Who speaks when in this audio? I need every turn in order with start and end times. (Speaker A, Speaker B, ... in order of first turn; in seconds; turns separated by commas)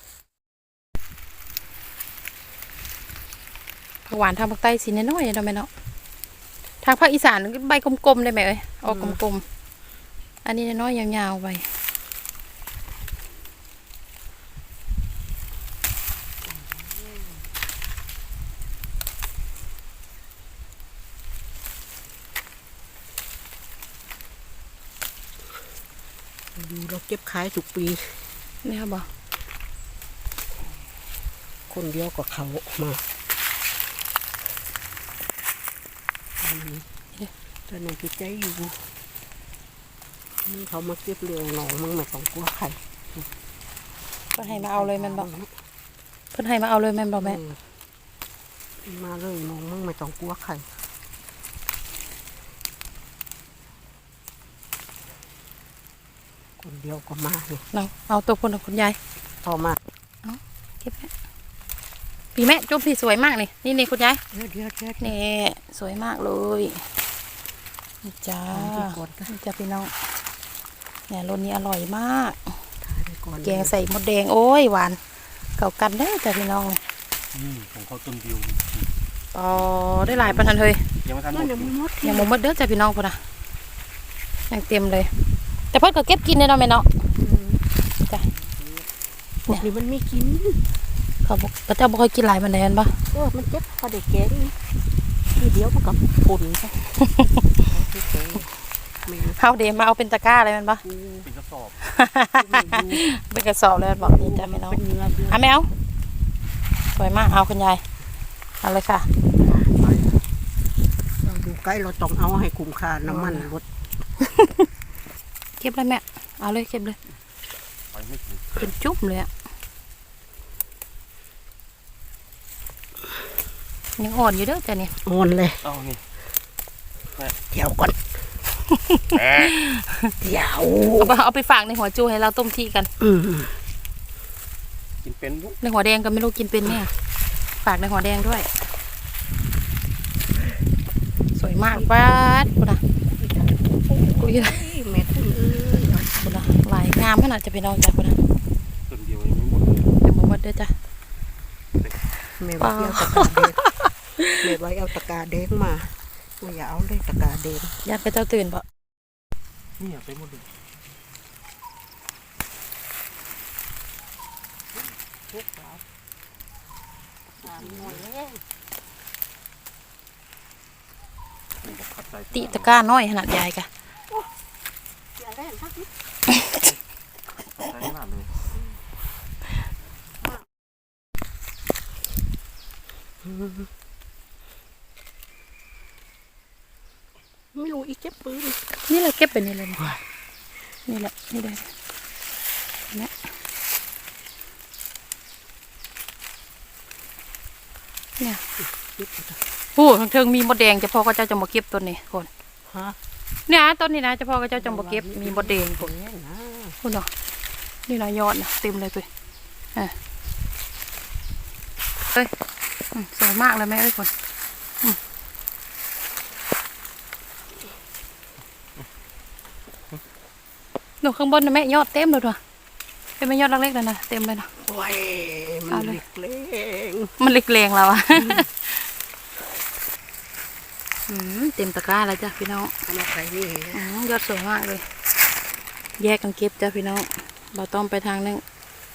Speaker A: 4.1-5.7, Speaker A: 6.8-9.4, Speaker B: 8.9-9.2, Speaker A: 10.4-11.7, Speaker B: 16.4-17.4, Speaker B: 26.6-28.2, Speaker A: 28.6-29.1, Speaker B: 31.7-33.0, Speaker B: 36.4-36.9, Speaker B: 37.7-38.8, Speaker B: 40.5-42.8, Speaker A: 44.4-45.3, Speaker B: 44.4-45.5, Speaker A: 46.3-47.4, Speaker B: 47.2-47.6, Speaker B: 48.8-50.7, Speaker B: 56.6-57.6, Speaker A: 57.7-59.0, Speaker B: 59.4-59.8, Speaker A: 60.2-61.1, Speaker A: 62.4-64.2, Speaker B: 64.3-65.2, Speaker A: 65.0-66.8, Speaker A: 68.0-69.9, Speaker B: 68.5-69.3, Speaker A: 71.1-72.5, Speaker B: 72.8-73.8, Speaker A: 73.4-75.0, Speaker A: 75.6-76.8, Speaker C: 77.3-78.9, Speaker A: 79.3-80.8, Speaker C: 79.5-81.8, Speaker B: 81.3-82.3, Speaker A: 82.0-83.2, Speaker A: 84.5-85.1, Speaker A: 85.7-86.9, Speaker B: 87.2-88.8, Speaker B: 89.5-90.6, Speaker A: 91.2-93.0, Speaker B: 93.1-94.6, Speaker B: 95.3-96.7, Speaker A: 96.9-97.4, Speaker B: 97.7-98.5, Speaker B: 99.0-99.4, Speaker A: 99.3-100.8, Speaker B: 100.8-101.3, Speaker C: 101.2-101.8, Speaker A: 101.8-105.7, Speaker B: 102.4-103.0, Speaker B: 104.0-105.5, Speaker A: 106.9-107.8, Speaker A: 108.6-109.1, Speaker C: 109.4-110.2, Speaker B: 111.2-113.7, Speaker A: 113.1-113.5, Speaker A: 114.2-114.6, Speaker A: 115.6-117.0, Speaker C: 117.9-118.7, Speaker A: 118.6-119.3, Speaker A: 124.0-124.9, Speaker B: 125.0-125.6, Speaker C: 125.6-126.0, Speaker B: 127.5-128.0, Speaker A: 128.7-130.1, Speaker C: 129.1-129.6, Speaker B: 130.2-131.2, Speaker A: 131.0-132.9, Speaker B: 133.0-133.6, Speaker C: 135.0-135.6, Speaker A: 135.6-136.9, Speaker A: 137.6-138.6, Speaker A: 141.3-142.8, Speaker B: 141.7-142.4, Speaker B: 143.1-146.4, Speaker A: 144.2-144.7, Speaker A: 146.2-148.2, Speaker C: 148.9-149.9, Speaker A: 150.0-150.7, Speaker B: 152.4-153.7, Speaker A: 152.6-153.5, Speaker B: 154.4-157.8, Speaker A: 157.8-158.6, Speaker C: 159.8-160.5, Speaker B: 164.7-165.8, Speaker B: 167.4-168.4, Speaker C: 167.5-168.0, Speaker C: 171.6-172.7, Speaker A: 172.3-173.7, Speaker B: 175.2-175.9, Speaker C: 177.6-178.3, Speaker B: 183.2-183.7, Speaker B: 187.5-188.6, Speaker A: 188.9-189.8, Speaker A: 190.9-191.7, Speaker A: 192.9-193.3, Speaker B: 198.6-199.4, Speaker A: 199.8-202.3, Speaker B: 202.7-203.0, Speaker A: 203.5-205.9, Speaker B: 204.5-206.8, Speaker A: 206.8-207.1, Speaker A: 207.9-209.1, Speaker A: 212.9-214.1, Speaker A: 221.0-222.4, Speaker A: 223.2-224.5, Speaker B: 224.7-227.2, Speaker A: 225.7-226.0, Speaker A: 227.2-228.9, Speaker A: 231.1-232.7, Speaker B: 232.8-233.9, Speaker A: 233.7-234.8, Speaker A: 236.0-238.4